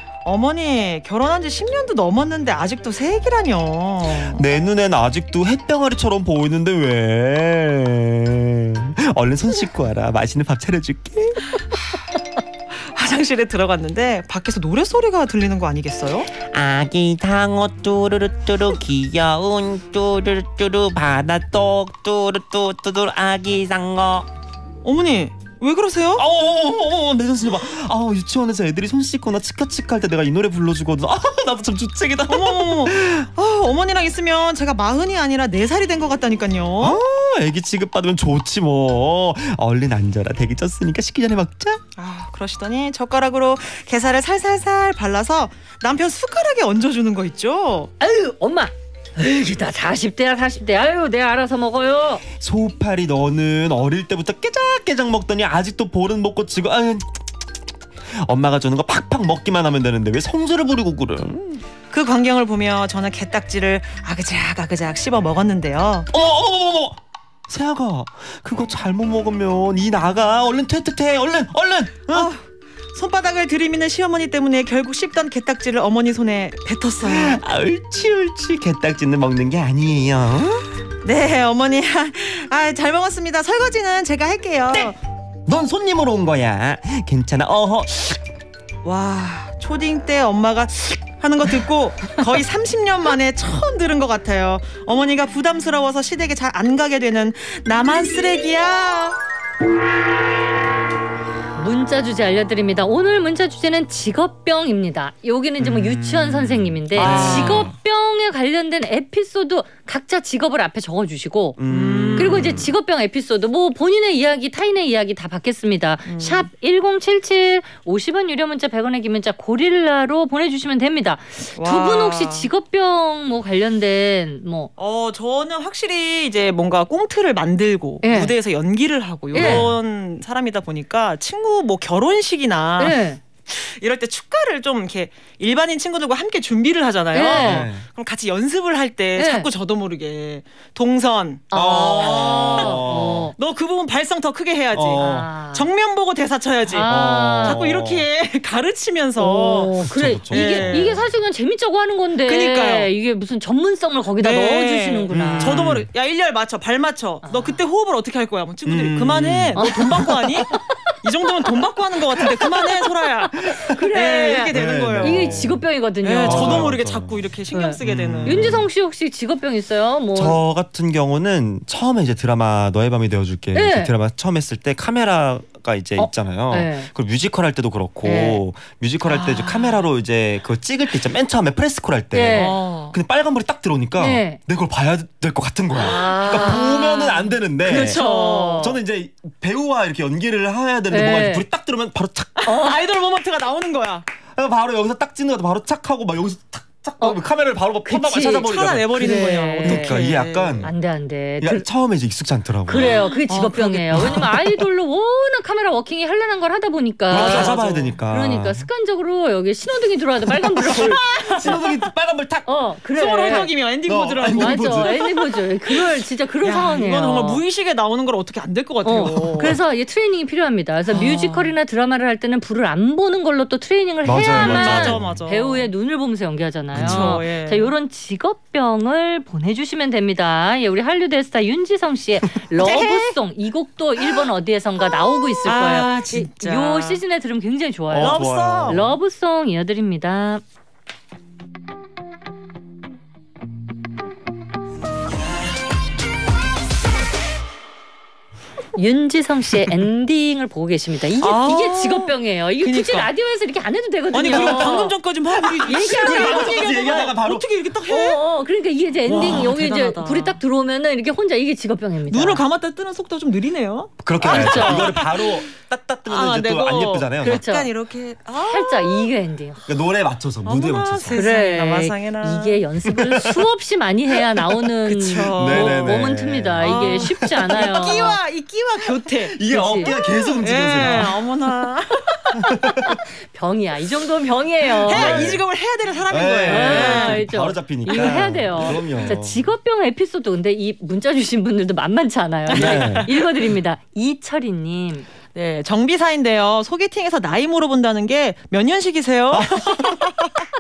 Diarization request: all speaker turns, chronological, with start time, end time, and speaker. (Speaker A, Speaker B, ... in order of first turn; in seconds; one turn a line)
Speaker A: 0.2-4.4
Speaker B: 4.2-11.4
Speaker A: 12.7-16.3
Speaker C: 16.4-24.3
Speaker A: 24.8-26.3
Speaker B: 26.2-33.3
Speaker A: 32.3-37.0
Speaker B: 36.8-41.8
Speaker A: 42.0-47.9
Speaker D: 48.0-52.2
Speaker B: 52.4-57.2
Speaker B: 58.0-61.6
Speaker A: 61.9-66.1
Speaker B: 66.1-72.3
Speaker A: 72.1-72.4
Speaker A: 72.9-77.4
Speaker B: 77.0-80.7
Speaker A: 81.0-85.0
Speaker B: 85.5-88.2
Speaker A: 88.8-99.2
Speaker D: 101.6-111.6
Speaker B: 105.6-107.8
Speaker A: 107.0-107.7
Speaker B: 111.6-112.7
Speaker A: 111.7-112.6
Speaker D: 112.2-124.7
Speaker A: 116.1-116.5
Speaker A: 121.6-122.5
Speaker A: 124.8-146.9
Speaker D: 128.0-128.3
Speaker D: 129.3-129.7
Speaker B: 129.3-129.8
Speaker D: 132.8-133.2
Speaker D: 137.1-137.7
Speaker B: 137.3-137.9
Speaker D: 139.2-139.5
Speaker D: 141.5-143.3
Speaker B: 141.5-143.3
Speaker B: 144.7-145.3
Speaker D: 145.0-145.7
Speaker D: 146.7-147.6
Speaker B: 146.8-148.1
Speaker A: 147.4-149.7
Speaker D: 149.2-155.7
Speaker B: 149.8-151.0
Speaker A: 150.3-151.0
Speaker A: 152.3-152.9
Speaker A: 154.2-165.4
Speaker B: 155.1-155.9
Speaker D: 157.2-157.6
Speaker B: 158.7-160.1
Speaker D: 159.6-161.0
Speaker B: 163.4-163.8
Speaker D: 163.4-166.7
Speaker B: 164.5-165.7
Speaker A: 166.0-168.6
Speaker B: 166.2-167.2
Speaker D: 167.5-170.4
Speaker B: 167.8-168.7
Speaker B: 170.2-188.0
Speaker D: 173.5-173.9
Speaker D: 176.0-176.9
Speaker D: 178.0-178.4
Speaker A: 179.1-179.7
Speaker D: 182.1-182.6
Speaker A: 182.3-183.0
Speaker D: 184.0-184.4
Speaker D: 185.8-188.8
Speaker A: 187.6-188.7
Speaker B: 188.5-192.5
Speaker D: 190.9-191.4
Speaker A: 192.4-194.1
Speaker D: 192.5-192.8
Speaker B: 194.3-200.7
Speaker D: 197.9-198.5
Speaker A: 198.1-200.7
Speaker D: 199.0-200.0
Speaker D: 200.6-201.7
Speaker B: 201.4-203.0
Speaker D: 202.7-211.6
Speaker A: 202.7-204.3
Speaker B: 203.9-204.2
Speaker B: 207.1-208.7
Speaker A: 207.1-207.9
Speaker A: 210.7-211.6
Speaker B: 210.8-212.5
Speaker D: 212.5-213.5
Speaker A: 213.0-219.6
Speaker B: 213.3-215.0
Speaker D: 214.3-217.4
Speaker D: 218.8-240.4
Speaker A: 220.9-221.6
Speaker B: 224.0-225.2
Speaker A: 224.3-225.7
Speaker B: 226.7-227.2
Speaker A: 226.8-227.7
Speaker A: 232.6-233.1
Speaker A: 235.4-237.0
Speaker B: 237.9-238.9
Speaker A: 238.0-238.8
Speaker D: 248.8-255.0
Speaker A: 251.2-253.1
Speaker A: 254.1-258.2
Speaker B: 254.3-254.7
Speaker B: 255.5-257.5
Speaker D: 255.7-257.0
Speaker D: 257.9-262.4
Speaker A: 259.1-260.4
Speaker A: 262.1-265.4
Speaker B: 264.0-267.4
Speaker D: 264.2-265.0
Speaker A: 266.1-269.1
Speaker D: 267.2-267.7
Speaker D: 268.4-269.7
Speaker B: 269.7-271.2
Speaker A: 270.4-272.6
Speaker D: 271.1-278.2
Speaker B: 272.9-273.4
Speaker A: 274.9-276.0
Speaker B: 275.4-277.7
Speaker A: 276.6-282.4
Speaker B: 279.2-281.2
Speaker D: 279.5-279.9
Speaker B: 282.4-283.0
Speaker D: 282.7-285.3
Speaker A: 284.9-287.3
Speaker B: 284.9-285.4
Speaker B: 286.1-289.5
Speaker D: 286.5-295.1
Speaker A: 287.9-288.9
Speaker B: 292.5-293.1
Speaker A: 292.5-293.3
Speaker A: 295.3-300.4
Speaker B: 299.3-300.1